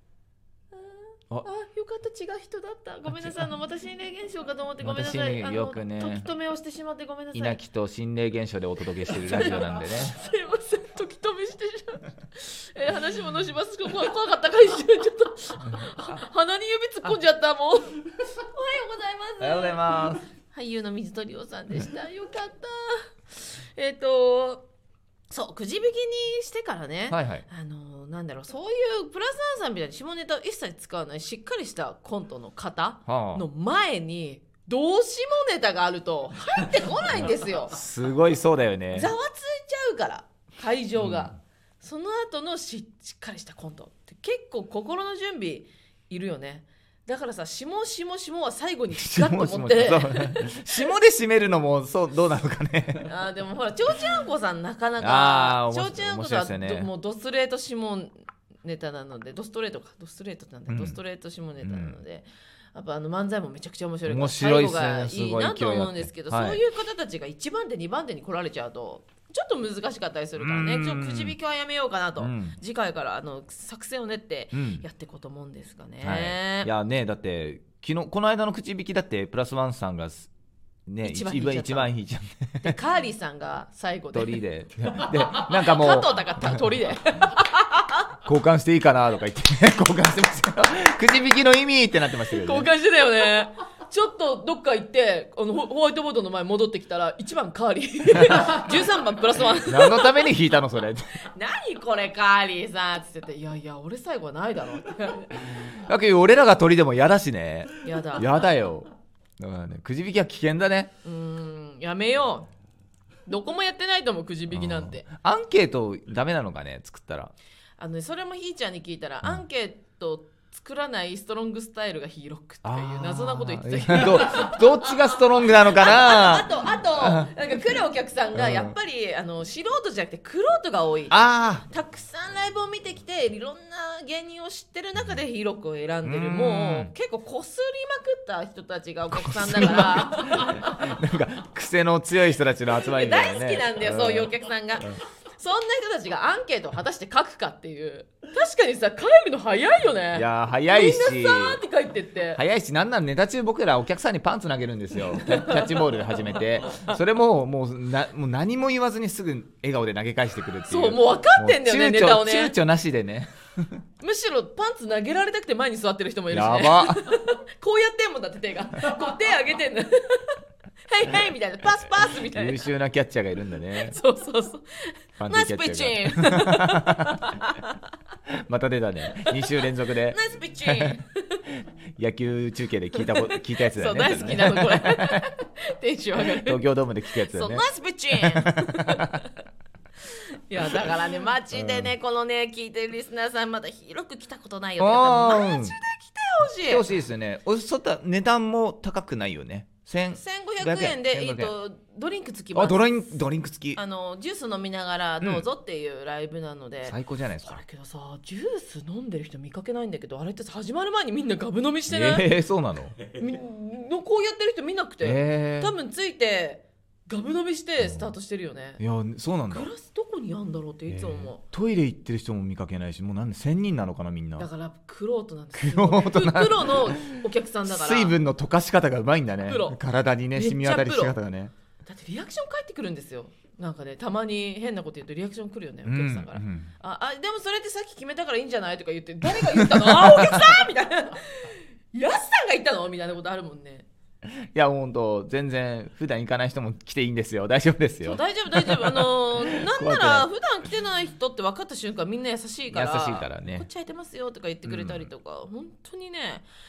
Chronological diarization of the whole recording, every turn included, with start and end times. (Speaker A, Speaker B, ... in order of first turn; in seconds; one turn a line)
Speaker A: 0.7-7.6
Speaker B: 3.1-3.4
Speaker B: 4.8-6.3
Speaker B: 7.3-10.2
Speaker A: 9.1-24.7
Speaker B: 15.8-16.1
Speaker B: 19.4-20.2
Speaker A: 25.3-37.8
Speaker B: 27.1-27.4
Speaker B: 33.1-33.4
Speaker B: 37.7-39.1
Speaker A: 38.9-50.6
Speaker B: 41.0-41.3
Speaker B: 48.9-53.1
Speaker A: 53.0-76.7
Speaker B: 55.0-56.9
Speaker B: 60.7-61.0
Speaker B: 61.6-62.0
Speaker B: 64.0-66.6
Speaker B: 70.4-71.3
Speaker B: 72.2-72.6
Speaker B: 74.5-74.8
Speaker B: 76.0-80.3
Speaker B: 80.9-82.7
Speaker A: 81.0-81.9
Speaker A: 82.6-84.4
Speaker B: 84.1-86.1
Speaker A: 85.3-88.1
Speaker B: 88.2-92.7
Speaker A: 92.3-100.3
Speaker B: 99.6-101.1
Speaker A: 101.2-105.7
Speaker B: 105.6-110.9
Speaker A: 107.8-108.3
Speaker A: 111.0-112.5
Speaker A: 113.2-115.0
Speaker B: 114.5-117.3
Speaker A: 117.8-124.8
Speaker B: 122.6-126.5
Speaker A: 125.7-140.8
Speaker B: 127.0-127.3
Speaker B: 128.3-128.7
Speaker B: 131.1-131.6
Speaker B: 136.0-136.9
Speaker B: 139.2-144.9
Speaker A: 142.8-152.4
Speaker B: 150.1-151.6
Speaker B: 152.3-163.8
Speaker A: 155.2-155.9
Speaker A: 160.7-162.5
Speaker A: 164.0-172.6
Speaker B: 166.3-167.1
Speaker B: 172.0-173.9
Speaker A: 173.8-177.8
Speaker B: 175.2-177.3
Speaker B: 178.3-180.9
Speaker A: 179.1-181.4
Speaker B: 181.9-185.3
Speaker A: 183.0-189.4
Speaker B: 186.2-187.6
Speaker B: 188.2-189.2
Speaker A: 190.0-197.1
Speaker B: 191.5-191.9
Speaker B: 194.8-195.7
Speaker B: 196.6-201.5
Speaker A: 200.2-202.9
Speaker B: 202.5-203.8
Speaker A: 203.7-212.3
Speaker B: 206.8-207.6
Speaker B: 211.9-212.9
Speaker A: 213.1-218.8
Speaker B: 215.0-215.7
Speaker B: 217.8-218.1
Speaker B: 218.8-219.7
Speaker A: 219.5-221.4
Speaker B: 220.9-224.5
Speaker A: 224.4-228.2
Speaker B: 225.5-231.5
Speaker A: 229.4-229.8
Speaker A: 230.3-231.2
Speaker A: 231.8-243.8
Speaker B: 235.8-236.7
Speaker B: 239.4-240.5
Speaker B: 244.2-250.3
Speaker A: 248.0-256.5
Speaker B: 252.7-253.7
Speaker B: 254.7-255.1